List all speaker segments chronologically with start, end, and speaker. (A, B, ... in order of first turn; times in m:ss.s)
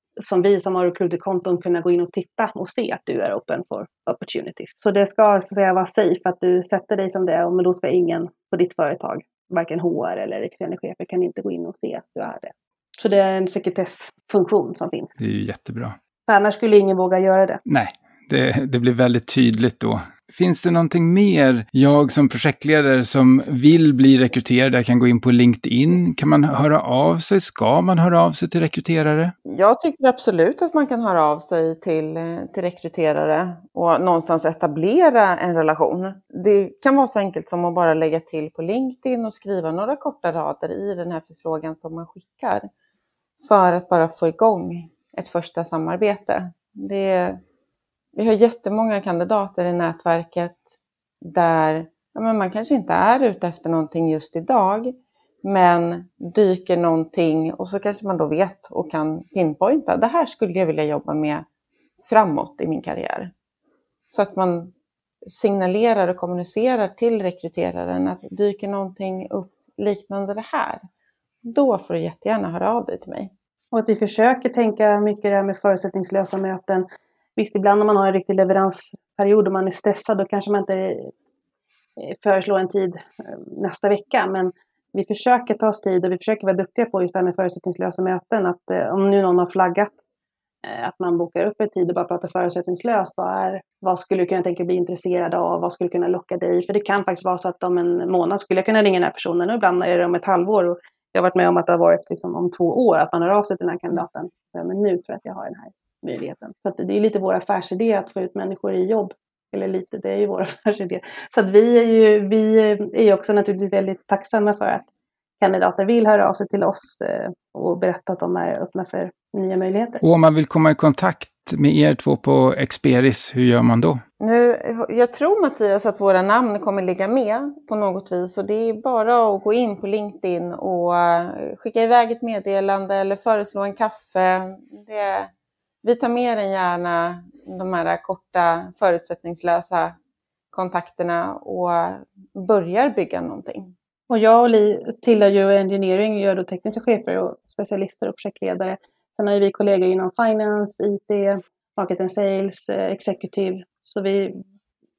0:00.2-0:15.2 A
0:15.2-0:16.0 B
0:16.3-0:17.6 A
0:17.7-0:29.3 B
0:29.5-0:42.7 C
0:43.4-0:47.4 C
0:48.2-0:50.7 C
0:51.2-1:01.4 C
1:02.0-1:03.3 C
1:04.1-1:04.7 C
1:05.3-1:10.8 C
1:11.4-1:13.3 C
1:13.7-1:16.9 A
1:17.4-1:21.1 A
1:22.0-1:30.0 A
1:30.6-1:54.9 A
1:55.4-2:00.0 A
2:00.0-2:04.0 B
2:04.2-2:15.3 C
2:15.8-2:20.0 C
2:20.5-2:23.7 C
2:24.1-2:34.4 A